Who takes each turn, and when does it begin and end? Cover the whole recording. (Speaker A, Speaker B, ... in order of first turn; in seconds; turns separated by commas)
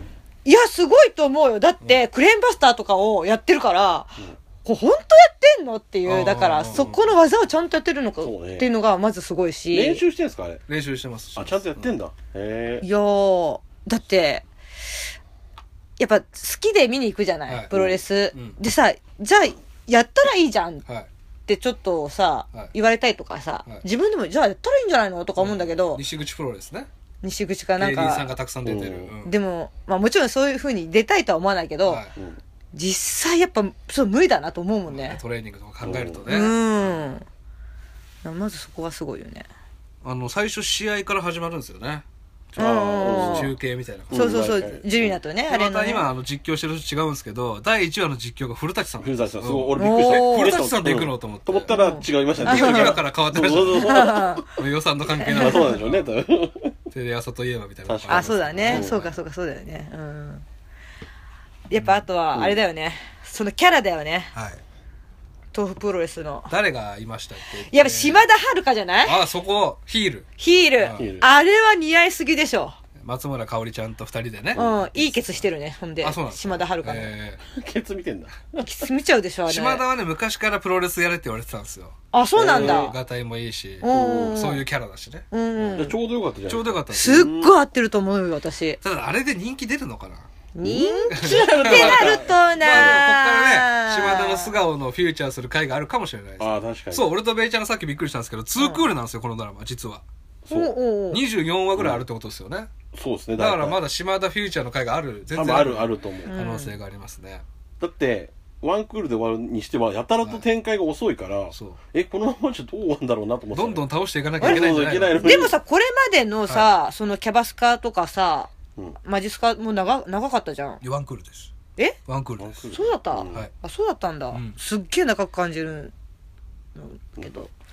Speaker A: 0.5-10.0, Speaker B: 6.1-7.0, Speaker C: 8.2-8.7, Speaker C: 9.7-10.6, Speaker B: 10.7-11.9, Speaker C: 11.4-12.8, Speaker A: 12.8-14.5, Speaker A: 16.0-20.8, Speaker B: 17.5-17.7, Speaker C: 17.7-18.0, Speaker A: 21.5-26.0, Speaker B: 25.4-26.9, Speaker A: 27.2-28.3, Speaker B: 27.8-29.3, Speaker C: 28.6-29.1, Speaker A: 29.2-32.0, Speaker B: 31.9-32.1, Speaker A: 32.7-35.2, Speaker B: 34.9-36.6, Speaker C: 35.8-36.2, Speaker A: 36.3-37.2, Speaker A: 38.2-39.5, Speaker B: 40.0-42.0, Speaker C: 42.6-43.5, Speaker A: 42.6-43.5, Speaker B: 43.0-44.3, Speaker C: 44.1-45.2, Speaker A: 44.1-46.1, Speaker B: 45.5-51.8, Speaker C: 49.0-54.5, Speaker A: 49.8-50.6, Speaker A: 51.7-53.0, Speaker B: 52.4-56.1, Speaker A: 53.8-54.5, Speaker A: 55.2-55.7, Speaker C: 55.3-56.8, Speaker B: 56.9-59.1, Speaker C: 57.9-59.1, Speaker A: 58.1-60.4, Speaker A: 61.7-64.3, Speaker B: 61.8-62.0, Speaker B: 64.3-64.6, Speaker A: 65.5-66.5, Speaker B: 66.5-68.3, Speaker A: 67.7-69.2, Speaker B: 69.0-71.1, Speaker A: 70.4-72.8, Speaker C: 71.0-71.3, Speaker B: 73.0-75.5, Speaker A: 74.6-77.1, Speaker B: 76.0-77.4, Speaker C: 77.5-78.7, Speaker A: 78.6-79.8, Speaker B: 79.5-85.3, Speaker A: 82.1-82.9, Speaker C: 82.4-83.0, Speaker A: 83.8-84.6, Speaker C: 83.9-84.4, Speaker A: 85.3-86.0, Speaker C: 85.7-87.5, Speaker B: 86.5-87.3, Speaker A: 86.9-88.8, Speaker B: 88.8-90.3, Speaker A: 90.5-94.5, Speaker C: 90.6-93.0, Speaker B: 91.1-100.0, Speaker C: 96.4-97.1, Speaker A: 98.6-98.9, Speaker C: 100.5-100.7, Speaker A: 100.5-101.2, Speaker B: 101.1-102.7, Speaker C: 101.8-102.0, Speaker C: 102.9-103.8, Speaker B: 103.4-107.4, Speaker C: 105.3-106.3, Speaker A: 106.3-106.8, Speaker C: 107.8-113.8, Speaker B: 111.5-111.8, Speaker B: 113.5-115.2, Speaker C: 114.4-115.6, Speaker A: 115.2-118.5, Speaker A: 119.0-120.8, Speaker B: 120.8-121.5, Speaker B: 122.1-122.7, Speaker C: 122.4-123.5, Speaker A: 122.7-125.9, Speaker B: 124.3-124.6, Speaker A: 126.8-127.4, Speaker C: 127.2-127.5